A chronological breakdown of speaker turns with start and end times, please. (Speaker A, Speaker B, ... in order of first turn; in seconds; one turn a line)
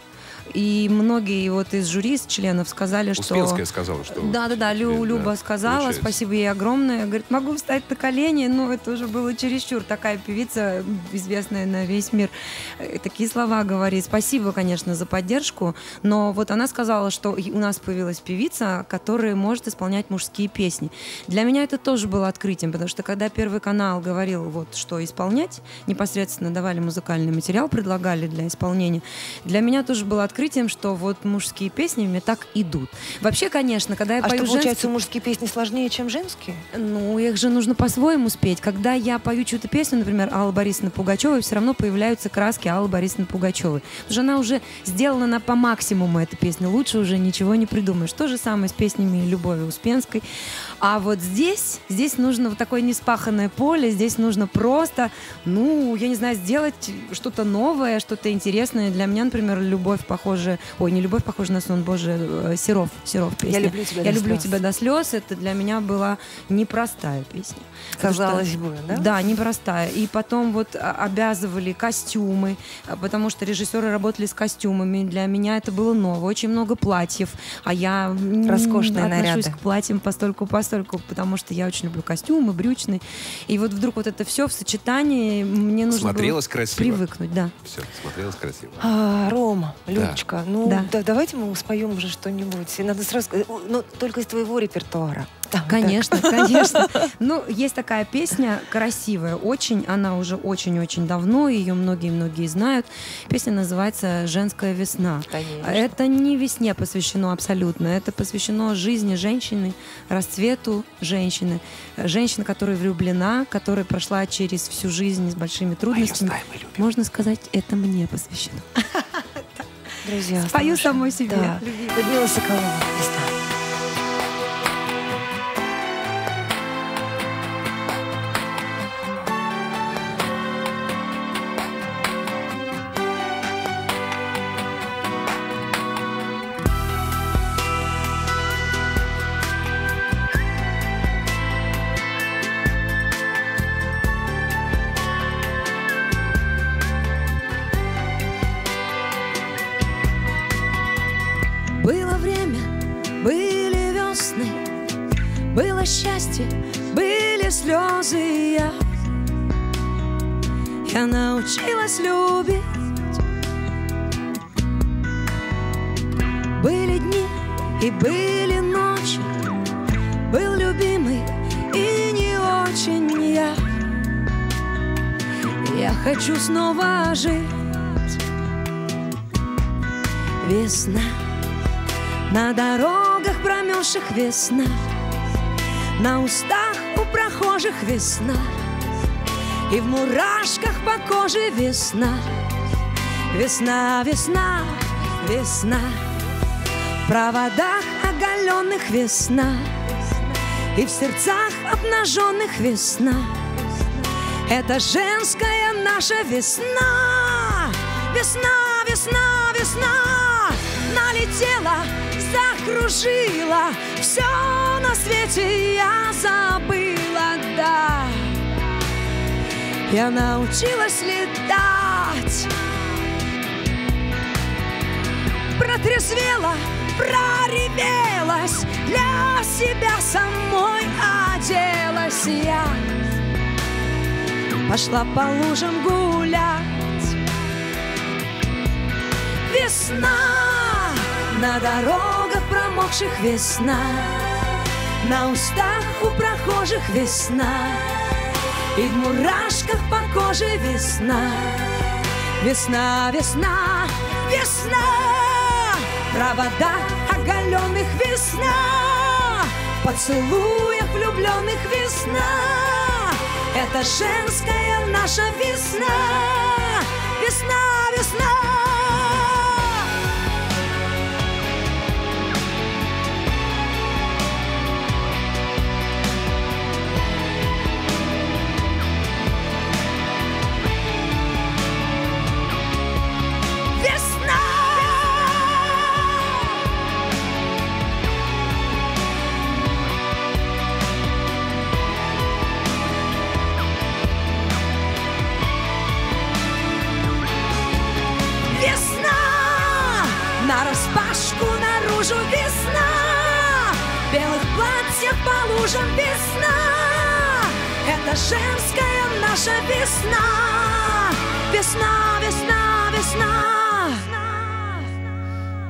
Speaker A: 0.5-34.9
Speaker B: 3.2-6.2
Speaker C: 34.2-36.6
Speaker A: 36.7-50.2
Speaker A: 50.8-87.5
Speaker C: 63.4-64.6
Speaker C: 68.0-69.1
Speaker C: 78.4-79.6
Speaker B: 85.9-87.0
Speaker B: 87.6-88.8
Speaker C: 88.8-97.0
Speaker B: 89.9-90.2
Speaker A: 90.6-90.9
Speaker A: 95.7-119.6
Speaker C: 105.3-105.9
Speaker B: 115.9-116.8
Speaker C: 120.0-123.3
Speaker A: 120.5-122.0
Speaker A: 151.8-154.7
Speaker A: 155.5-158.8
Speaker A: 160.8-163.1
Speaker A: 166.5-169.4
Speaker A: 170.3-173.6
Speaker A: 175.6-178.0
Speaker A: 180.4-181.2
Speaker A: 182.3-184.9
Speaker A: 185.9-188.6
Speaker A: 189.7-192.3
Speaker A: 193.3-196.0
Speaker A: 197.0-199.7
Speaker A: 200.7-203.5
Speaker A: 204.4-218.4
Speaker A: 219.9-222.5
Speaker A: 225.5-233.0
Speaker A: 234.6-237.2
Speaker A: 239.4-244.4
Speaker A: 245.0-248.2
Speaker A: 248.7-269.9
Speaker A: 283.7-286.4
Speaker A: 298.5-314.7